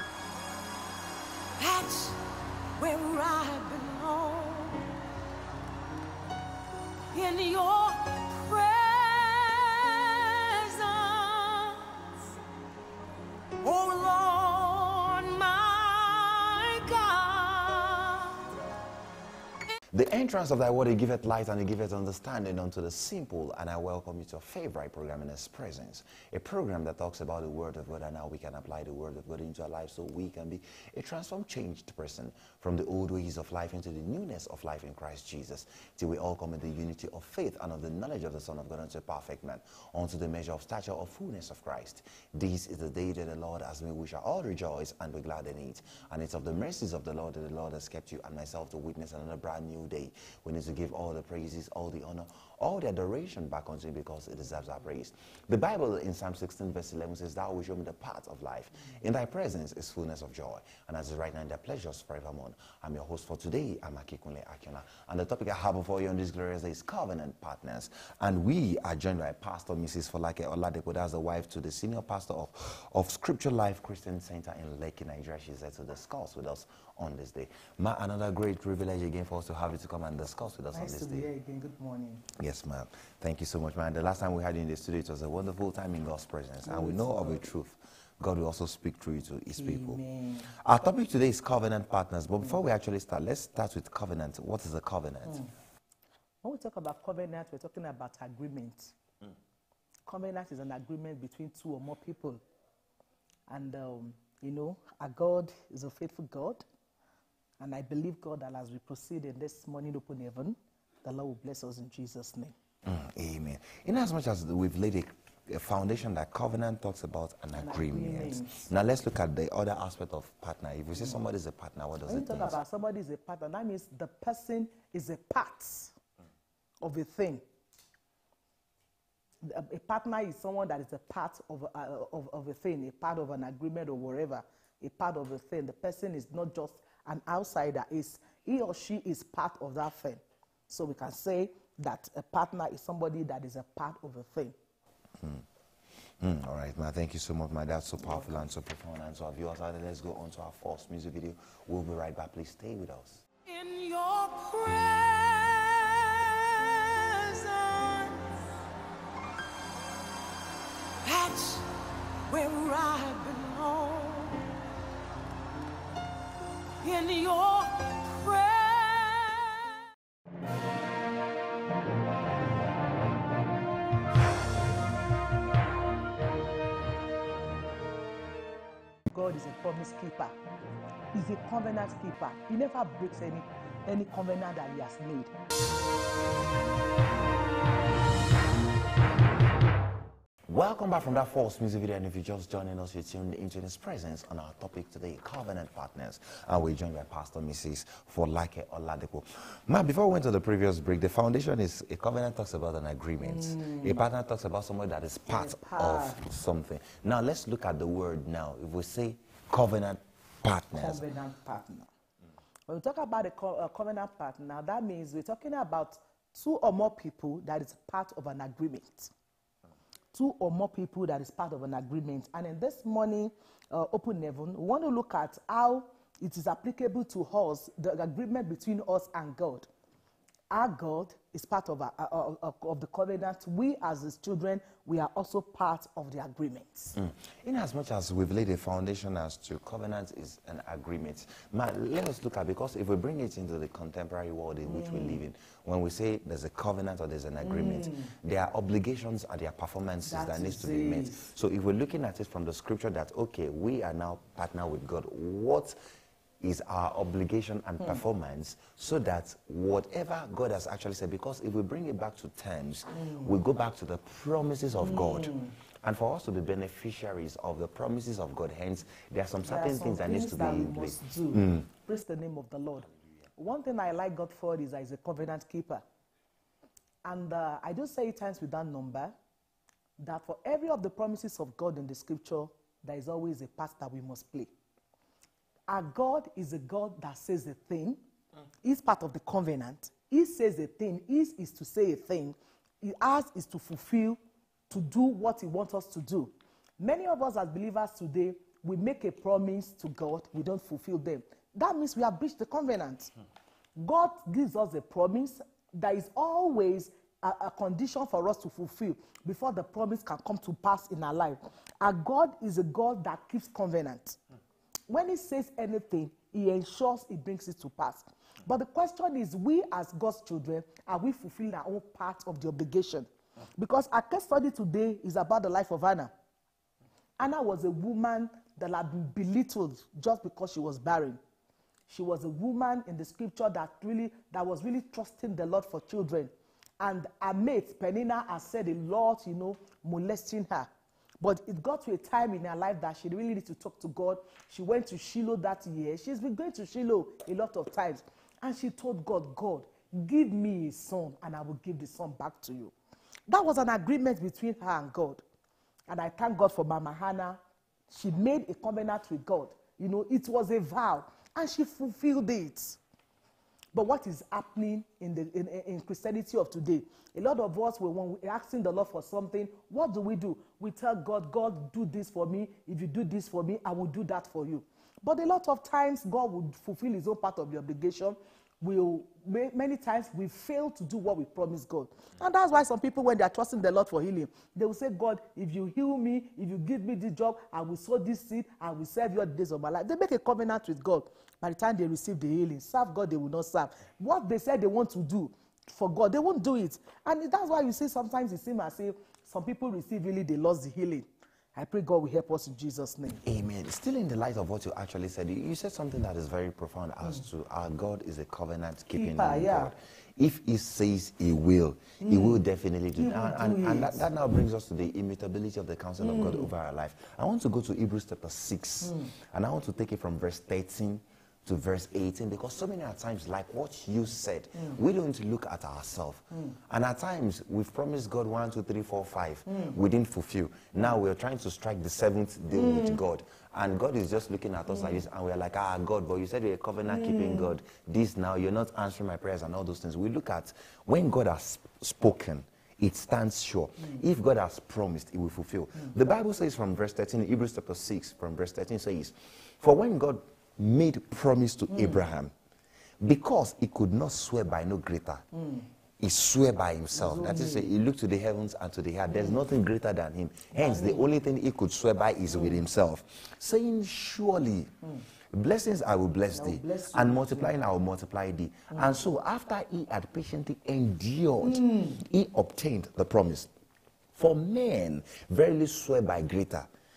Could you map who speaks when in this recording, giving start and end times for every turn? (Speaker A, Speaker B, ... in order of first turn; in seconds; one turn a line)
Speaker A: 1.6-2.2
Speaker A: 2.8-4.9
Speaker A: 7.1-12.1
Speaker A: 13.6-18.4
Speaker B: 19.9-81.3
Speaker C: 80.7-82.2
Speaker B: 82.4-95.5
Speaker C: 86.6-87.4
Speaker C: 89.5-90.5
Speaker C: 96.4-98.9
Speaker C: 100.0-102.4
Speaker C: 103.5-106.6
Speaker C: 107.6-112.5
Speaker B: 112.8-122.5
Speaker C: 117.6-118.7
Speaker C: 122.1-125.9
Speaker C: 126.8-127.4
Speaker C: 129.4-144.5
Speaker B: 146.2-153.2
Speaker A: 153.4-158.4
Speaker A: 161.0-161.7
Speaker A: 162.3-164.5
Speaker A: 166.8-169.7
Speaker C: 179.1-180.3
Speaker C: 181.1-185.3
Speaker B: 190.5-211.0
Speaker C: 203.2-204.0
Speaker C: 205.3-206.2
Speaker C: 210.7-211.9
Speaker C: 212.7-219.1
Speaker C: 220.1-229.7
Speaker C: 230.5-236.9
Speaker B: 236.9-255.8
Speaker C: 244.7-245.2
Speaker C: 247.4-248.0
Speaker C: 250.0-251.2
Speaker B: 256.4-271.6
Speaker C: 263.0-263.3
Speaker C: 264.8-265.5
Speaker C: 269.4-275.8
Speaker C: 277.0-279.1
Speaker C: 280.0-284.5
Speaker C: 285.7-288.0
Speaker C: 288.6-303.1
Speaker C: 303.8-314.2
Speaker C: 314.9-326.1
Speaker C: 327.2-331.2
Speaker C: 331.9-340.7
Speaker C: 341.2-352.7
Speaker C: 353.3-355.2
Speaker C: 355.9-362.8
Speaker C: 363.7-403.2
Speaker B: 403.2-452.3
Speaker C: 408.9-409.7
Speaker C: 412.0-412.4
Speaker C: 413.0-414.1
Speaker C: 416.0-416.5
Speaker C: 432.6-433.0
Speaker C: 436.9-437.4
Speaker B: 453.0-455.2
Speaker B: 456.0-464.8
Speaker C: 456.9-457.7
Speaker C: 459.1-459.4
Speaker C: 460.5-461.1
Speaker B: 465.3-473.5
Speaker C: 466.3-467.5
Speaker C: 471.4-471.9
Speaker B: 474.1-476.7